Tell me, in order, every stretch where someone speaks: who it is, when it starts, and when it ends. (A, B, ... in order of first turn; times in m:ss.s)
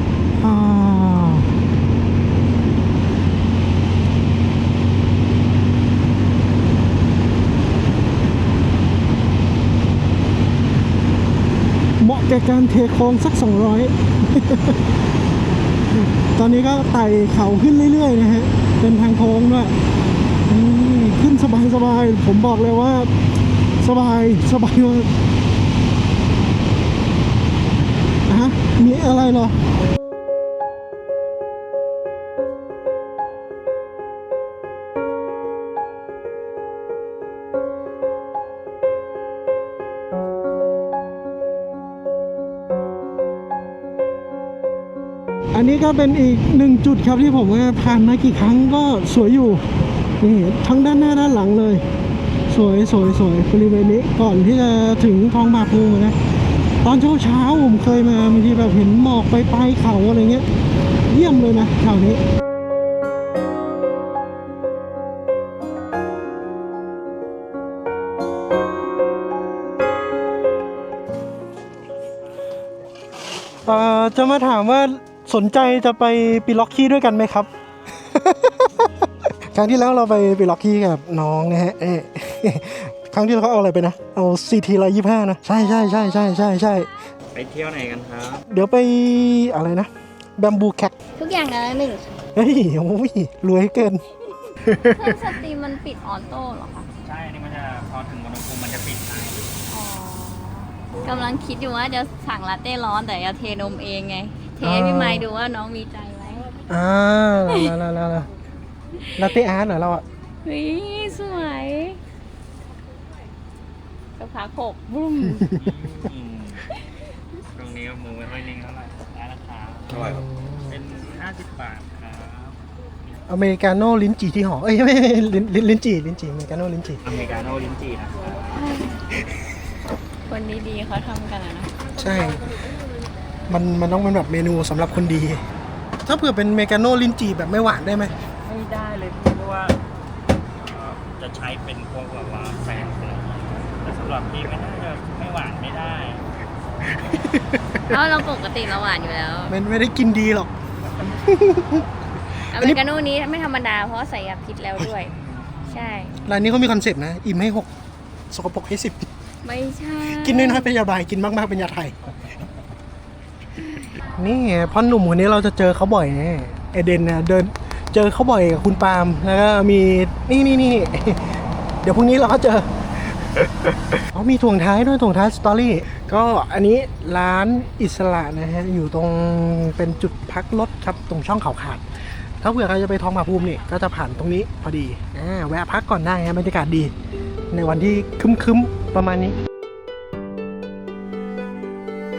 0:00.4-0:01.5 A
0:12.0-0:14.8 A
0:15.9-0:19.7 A
0:20.5-0:23.1 A
0:23.8-0:25.1 A
0:28.3-0:29.6 A
0:45.5-0:49.6 A
0:50.2-0:51.8 A
0:52.5-0:56.2 A
0:56.8-1:00.4 A
1:01.1-1:02.2 A
1:13.6-1:17.5 A
1:18.0-1:26.9 A
1:27.3-1:28.4 B
1:28.5-1:30.9 A
1:31.2-1:32.2 C
1:32.4-1:34.0 A
1:34.6-1:35.2 A
1:34.8-1:36.9 C
1:37.0-1:39.5 B
1:39.7-1:46.5 C
1:44.6-1:45.2 A
1:46.7-1:48.3 A
1:49.2-1:50.0 A
1:50.4-1:52.0 C
1:54.2-1:55.5 C
1:55.5-1:56.6 B
1:57.5-2:02.6 B
1:59.9-2:00.7 A
2:03.3-2:07.0 A
2:07.0-2:08.5 B
2:08.5-2:09.0 C
2:10.3-2:11.8 C
2:11.9-2:12.5 A
2:13.5-2:15.4 A
2:16.0-2:18.1 A
2:18.4-2:19.8 B
2:20.6-2:26.3 B
2:27.0-2:28.0 A
2:27.9-2:29.5 C
2:29.5-2:30.5 A
2:30.8-2:31.2 B
2:31.2-2:31.8 A
2:32.5-2:35.1 C
2:35.7-2:36.1 C
2:36.2-2:37.7 A
2:38.3-2:39.1 A
2:39.4-2:40.7 C
2:40.1-2:42.0 A
2:44.2-2:51.3 A
2:51.8-2:52.7 A
2:53.4-3:01.8 A
3:02.4-3:06.9 A
3:07.5-3:09.4 A